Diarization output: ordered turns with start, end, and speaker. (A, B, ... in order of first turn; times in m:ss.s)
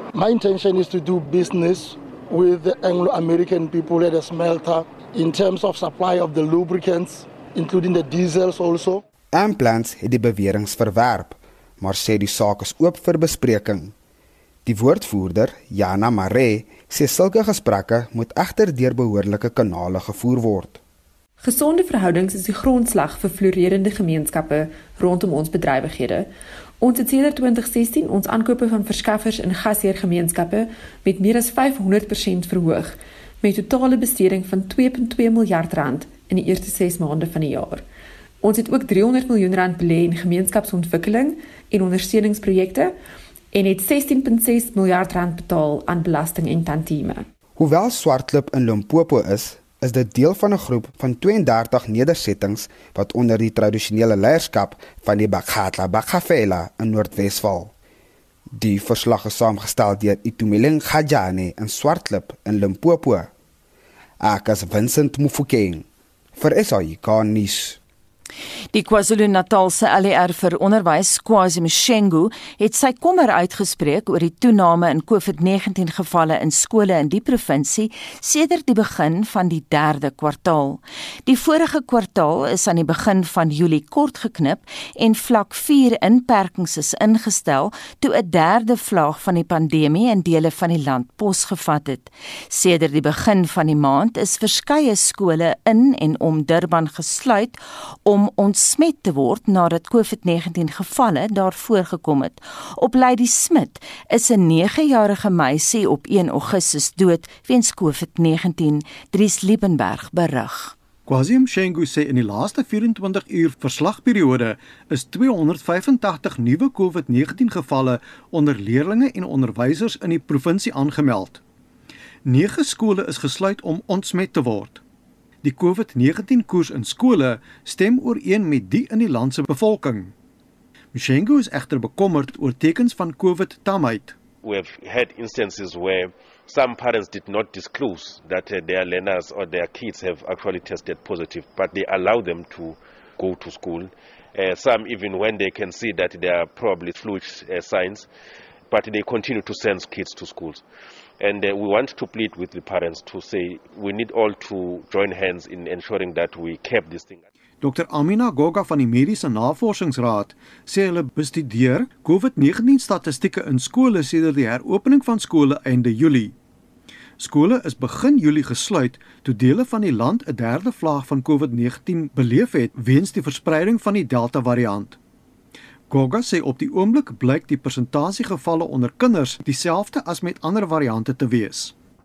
0:00.1-0:09.0 A
0:09.3-0:13.9 B
0:14.7-0:20.8 B
0:21.4-0:26.3 C
0:26.8-0:37.8 C
0:38.4-0:42.9 C
0:43.5-0:47.3 C
0:47.6-0:57.7 B
0:58.6-1:03.3 B
1:04.2-1:07.8 B
1:08.7-1:50.7 D
1:51.1-2:01.4 E
2:02.3-2:04.8 E
2:05.4-2:10.1 E
2:10.9-2:14.2 E
2:14.4-2:28.1 F
2:28.7-2:30.6 F
2:31.2-2:37.2 F
2:37.6-2:46.3 E
2:47.2-2:55.0 E
2:55.9-3:01.7 E